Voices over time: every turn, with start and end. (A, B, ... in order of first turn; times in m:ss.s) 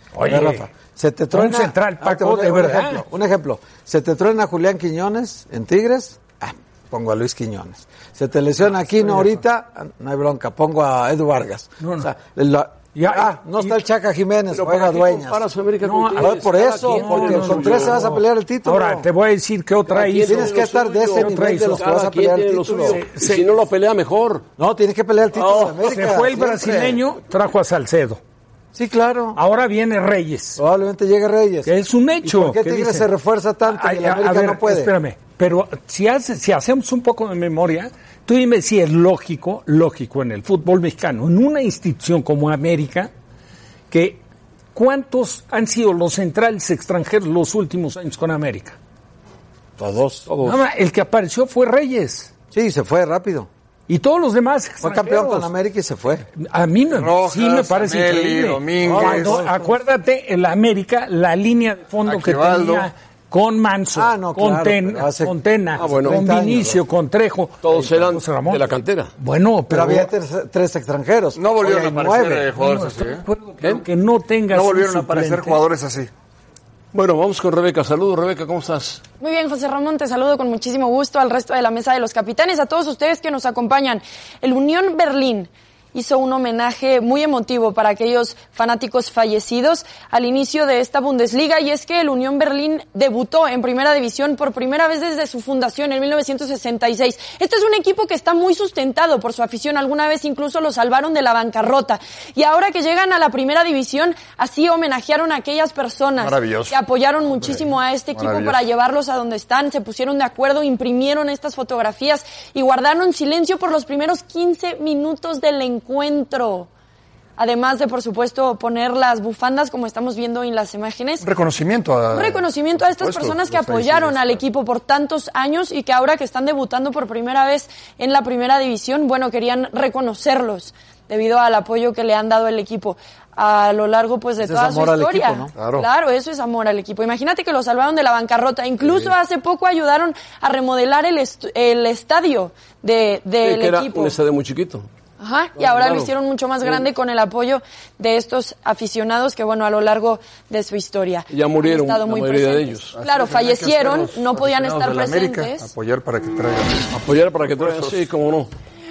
0:00.1-0:00.7 A
0:00.2-0:15.4 B
0:01.3-0:03.0 A
0:11.8-0:12.1 A
0:13.0-0:13.8 A
0:14.5-0:18.0 C
0:15.8-0:20.6 A
0:16.2-0:19.1 B
0:19.9-0:24.5 C
0:20.3-0:23.0 B
0:21.1-0:21.8 A
0:22.9-0:23.5 A
0:24.6-0:27.0 B
0:25.4-0:26.0 C
0:25.8-0:28.2 A
0:28.7-0:29.4 B
0:29.4-0:30.6 A
0:30.6-0:34.9 B
0:31.7-0:33.1 A
0:33.6-0:43.1 A
0:43.9-0:44.2 A
0:44.7-0:48.8 A
0:49.8-0:50.3 B
0:50.3-0:50.6 C
0:50.4-0:52.3 A
0:52.5-0:53.5 B
0:53.9-0:55.5 A
0:54.8-0:56.3 B
0:56.3-1:08.7 A
0:56.9-0:59.4 D
0:58.8-0:59.8 B
1:02.0-1:02.9 D
1:03.9-1:06.8 B
1:05.8-1:06.2 C
1:07.6-1:09.1 C
1:09.2-1:10.1 A
1:09.7-1:12.5 B
1:11.4-1:13.2 D
1:12.6-1:15.6 A
1:14.5-1:16.1 D
1:16.9-1:19.0 C
1:19.2-1:56.7 E
1:46.2-1:46.8 D
1:48.1-1:48.6 D
1:57.4-2:01.3 E
2:01.2-2:02.4 D
2:02.1-2:24.2 E
2:03.0-2:04.3 D
2:03.5-2:04.1 C
2:14.4-2:15.5 B
2:15.6-2:15.9 D
2:23.4-2:24.9 C
2:25.2-2:35.7 E
2:25.6-2:26.1 C
2:31.3-2:33.0 C
2:33.0-2:36.9 D
2:36.9-2:38.5 C
2:37.6-2:38.0 D